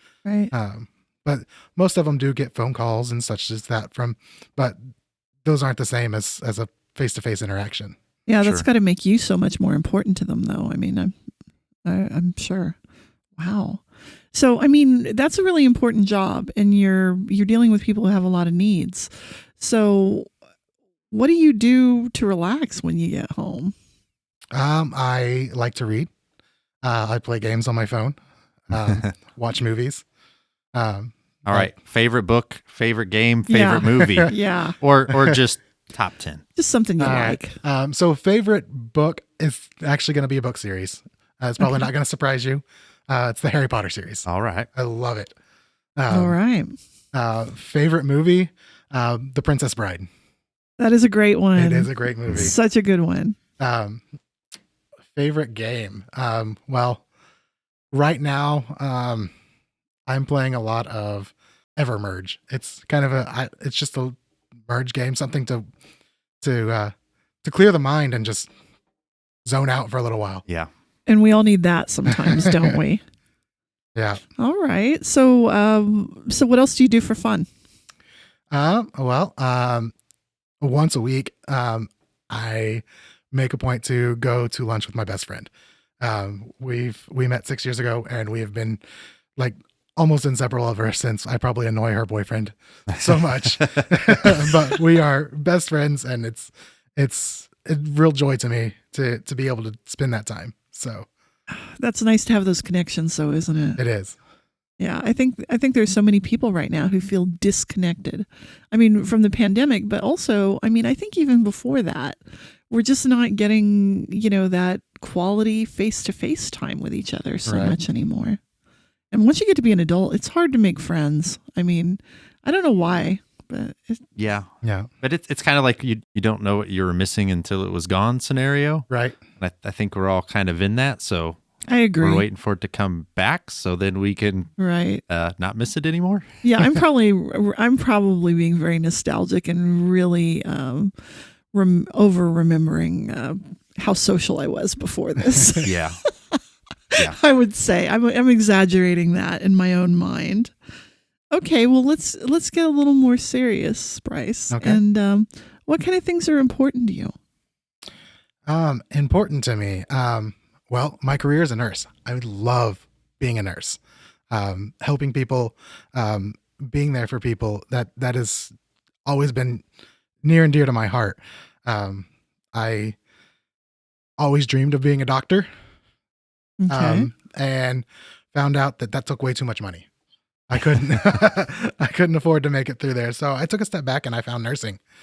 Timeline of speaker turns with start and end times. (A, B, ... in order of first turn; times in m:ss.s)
0:00.2-0:00.5 A
0:00.5-0:04.8 B
0:05.4-0:08.0 B
0:08.3-0:11.1 A
0:11.8-0:12.7 A
0:13.4-0:13.8 A
0:14.3-0:20.3 A
0:21.1-0:23.7 A
0:24.5-0:26.1 B
0:26.8-0:28.2 B
0:28.7-0:30.0 B
0:28.8-0:29.0 C
0:30.7-0:31.7 B
0:31.4-0:36.4 C
0:33.5-0:34.8 A
0:34.0-0:34.3 B
0:36.6-0:37.6 A
0:37.0-0:45.3 B
0:44.2-0:44.7 C
0:46.0-0:46.4 B
0:46.1-0:46.8 A
0:47.1-0:50.1 B
0:50.8-0:53.4 A
0:51.6-0:52.5 B
0:53.6-0:54.0 B
0:55.1-0:57.0 B
0:57.9-0:59.3 B
1:00.1-1:04.2 B
1:04.7-1:05.7 B
1:06.4-1:08.5 B
1:09.4-1:10.4 B
1:11.1-1:13.0 A
1:12.1-1:12.7 B
1:13.9-1:14.2 B
1:14.4-1:17.5 A
1:18.5-1:19.9 B
1:20.6-1:25.5 B
1:26.0-1:28.8 B
1:29.4-1:41.1 B
1:41.5-1:43.8 A
1:43.8-1:44.2 B
1:44.8-1:58.4 A
1:57.5-1:57.8 B
1:59.1-2:04.0 A
2:04.2-2:04.5 C
2:04.6-2:04.9 B
2:05.0-2:08.9 C
2:08.9-2:09.2 B
2:09.4-2:11.4 C
2:11.7-2:12.2 A
2:12.0-2:14.5 C
2:14.6-2:15.0 A
2:15.1-2:16.4 C
2:16.4-2:20.9 A
2:21.5-2:25.7 A
2:25.6-2:26.0 C
2:26.9-2:30.5 A
2:31.3-2:37.1 A
2:34.5-2:34.8 B
2:38.5-2:43.8 B
2:44.3-2:48.5 B
2:49.0-2:49.6 B
2:50.2-2:53.0 B
2:54.2-2:55.5 B
2:56.6-2:57.1 A
2:56.7-2:59.9 B
3:00.5-3:04.8 B